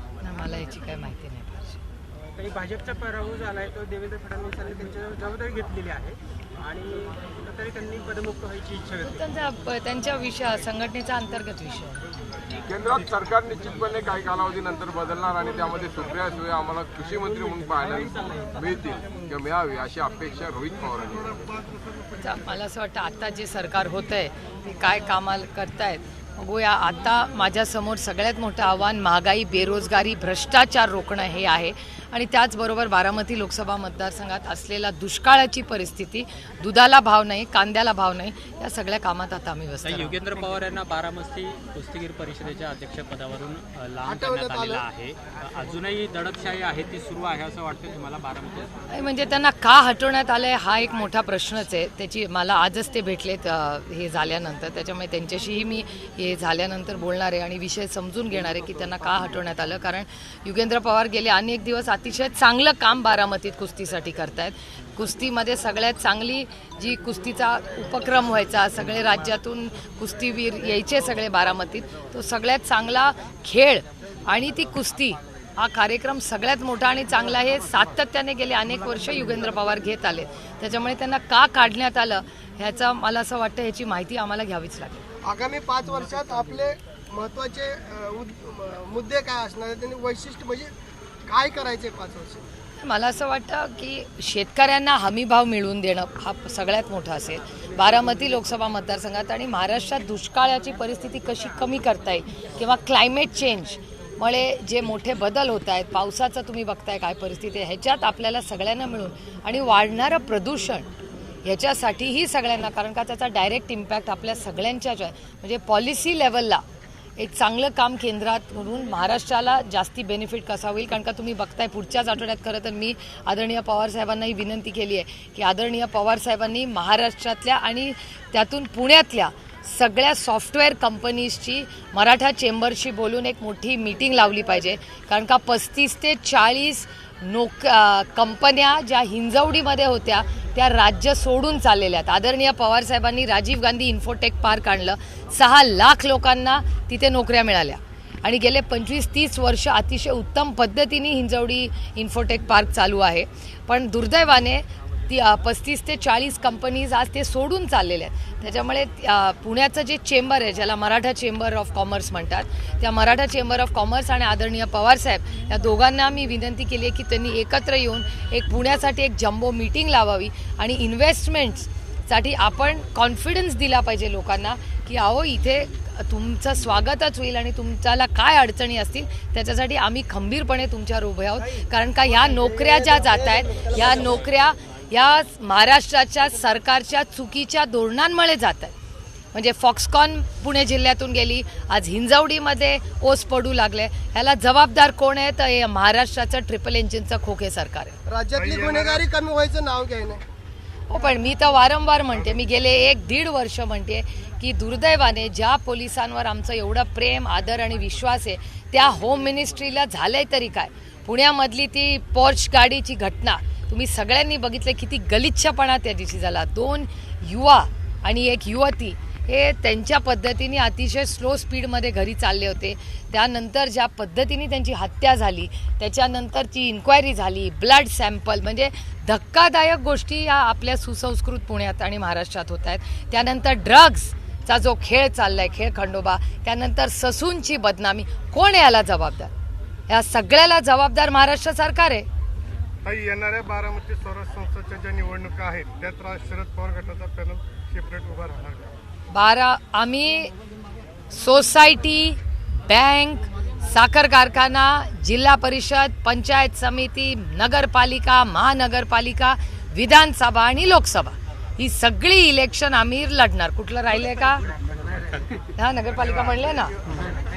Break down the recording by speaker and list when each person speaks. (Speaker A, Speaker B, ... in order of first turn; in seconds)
Speaker A: 0.2-1.8, 9.0-12.0, 22.2-40.2, 48.9-85.1, 92.8-110.9, 111.5-116.6, 117.2-188.7, 189.3-198.0, 200.9-239.3, 239.9-242.1, 249.1-250.3, 251.1-264.4, 265.6-266.8
Speaker B: 2.4-9.1, 17.3-18.6
Speaker C: 12.6-21.6
Speaker D: 39.8-48.9
Speaker E: 44.0-44.9, 85.2-90.7, 91.2-92.4, 181.4-184.3, 198.1-200.2
Speaker F: 198.4-199.0, 242.8-248.7